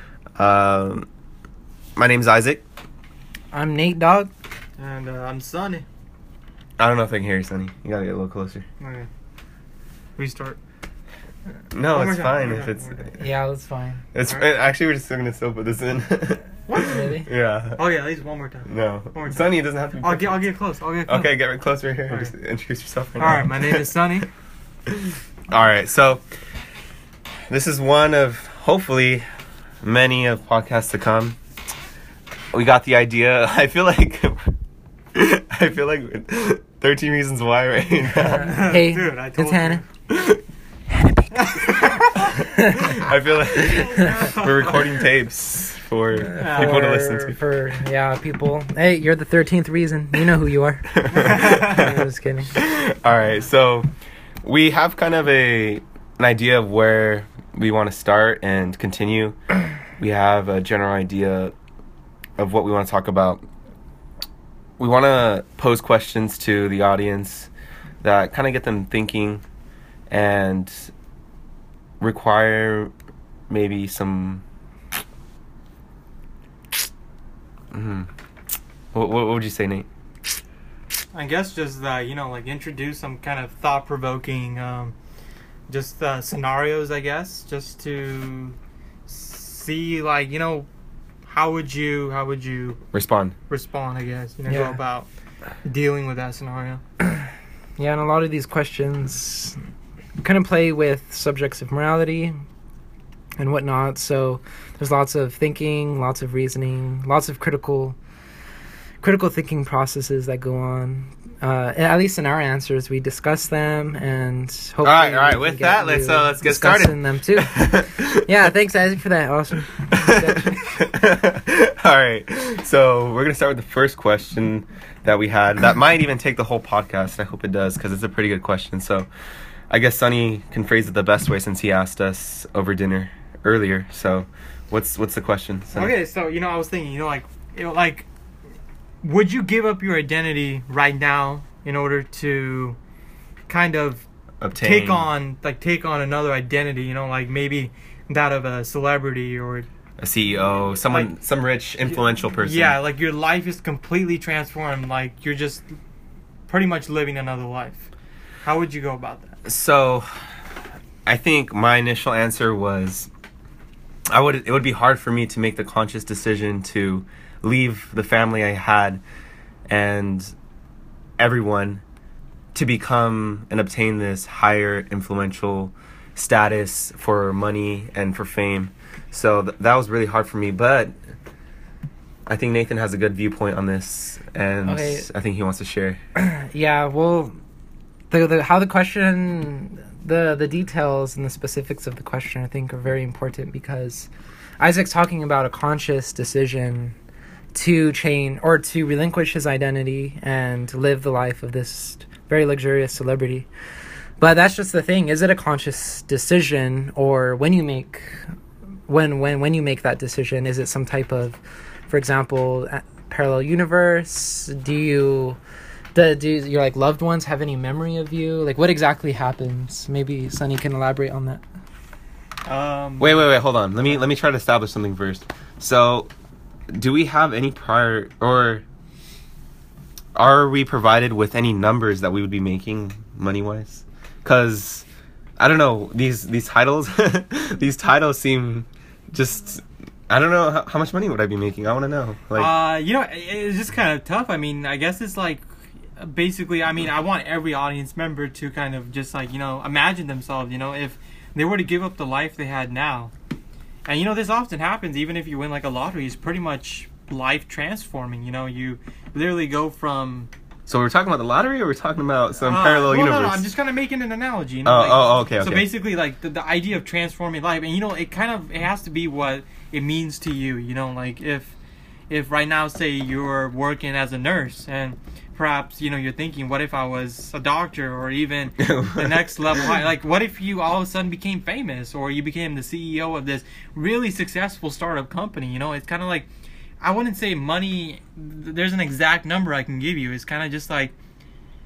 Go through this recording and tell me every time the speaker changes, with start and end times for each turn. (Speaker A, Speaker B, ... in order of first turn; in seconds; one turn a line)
Speaker A: 0.4-1.1
Speaker A: 2.0-2.6
Speaker B: 3.5-4.3
Speaker C: 4.8-5.8
Speaker A: 6.8-8.7
Speaker C: 8.8-9.1
Speaker C: 10.2-10.6
Speaker A: 11.7-13.1
Speaker C: 11.9-13.1
Speaker B: 13.2-14.0
Speaker A: 14.1-17.8
Speaker C: 16.7-17.2
Speaker B: 16.8-17.3
Speaker C: 17.8-19.5
Speaker A: 18.7-20.4
Speaker C: 20.0-21.3
Speaker A: 21.1-23.9
Speaker C: 23.2-24.3
Speaker A: 24.9-26.2
Speaker A: 27.5-29.3
Speaker A: 29.8-31.4
Speaker A: 32.5-34.5
Speaker A: 35.1-38.6
Speaker B: 38.2-39.8
Speaker C: 38.3-39.9
Speaker A: 40.1-40.4
Speaker B: 40.9-41.4
Speaker C: 41.4-41.7
Speaker B: 42.5-43.0
Speaker A: 42.8-47.4
Speaker C: 43.5-44.9
Speaker B: 46.2-52.6
Speaker C: 46.4-47.0
Speaker A: 50.9-53.9
Speaker C: 51.1-51.9
Speaker A: 54.4-59.4
Speaker A: 60.0-61.5
Speaker A: 62.4-63.5
Speaker A: 64.8-67.5
Speaker A: 68.0-69.4
Speaker A: 70.1-70.9
Speaker A: 72.0-72.9
Speaker A: 73.5-74.4
Speaker A: 77.7-78.1
Speaker A: 78.9-79.9
Speaker C: 81.1-84.9
Speaker C: 85.7-88.6
Speaker C: 89.1-90.7
Speaker C: 91.3-92.8
Speaker A: 92.9-93.3
Speaker C: 93.5-95.1
Speaker B: 94.5-94.8
Speaker C: 95.6-96.8
Speaker B: 97.8-99.6
Speaker B: 100.2-102.4
Speaker B: 103.4-108.0
Speaker B: 109.0-120.6
Speaker A: 114.8-118.3
Speaker A: 119.9-129.1
Speaker A: 129.7-135.9
Speaker C: 135.7-138.1
Speaker C: 139.0-142.8
Speaker C: 143.5-149.7
Speaker A: 144.4-145.1
Speaker A: 150.0-152.8
Speaker C: 150.7-151.1
Speaker C: 152.4-155.7
Speaker C: 156.5-157.9
Speaker C: 158.4-159.4
Speaker A: 159.5-160.3
Speaker A: 161.1-163.1
Speaker A: 164.1-169.0
Speaker A: 169.7-170.3
Speaker A: 171.2-171.8
Speaker A: 172.5-181.0
Speaker A: 182.3-186.0
Speaker B: 184.7-185.1
Speaker B: 186.2-187.4
Speaker B: 188.1-194.1
Speaker B: 194.6-197.0
Speaker B: 197.5-203.5
Speaker B: 204.2-208.3
Speaker B: 208.9-215.4
Speaker B: 215.9-221.4
Speaker C: 222.4-223.3
Speaker A: 223.0-226.1
Speaker A: 226.7-228.6
Speaker A: 230.2-234.9
Speaker A: 235.4-242.5
Speaker C: 242.3-245.4
Speaker C: 246.0-253.1
Speaker C: 253.9-260.3
Speaker A: 260.7-263.4
Speaker C: 262.4-271.5
Speaker A: 264.6-265.7
Speaker C: 272.1-286.3
Speaker A: 278.6-279.2
Speaker C: 286.8-290.9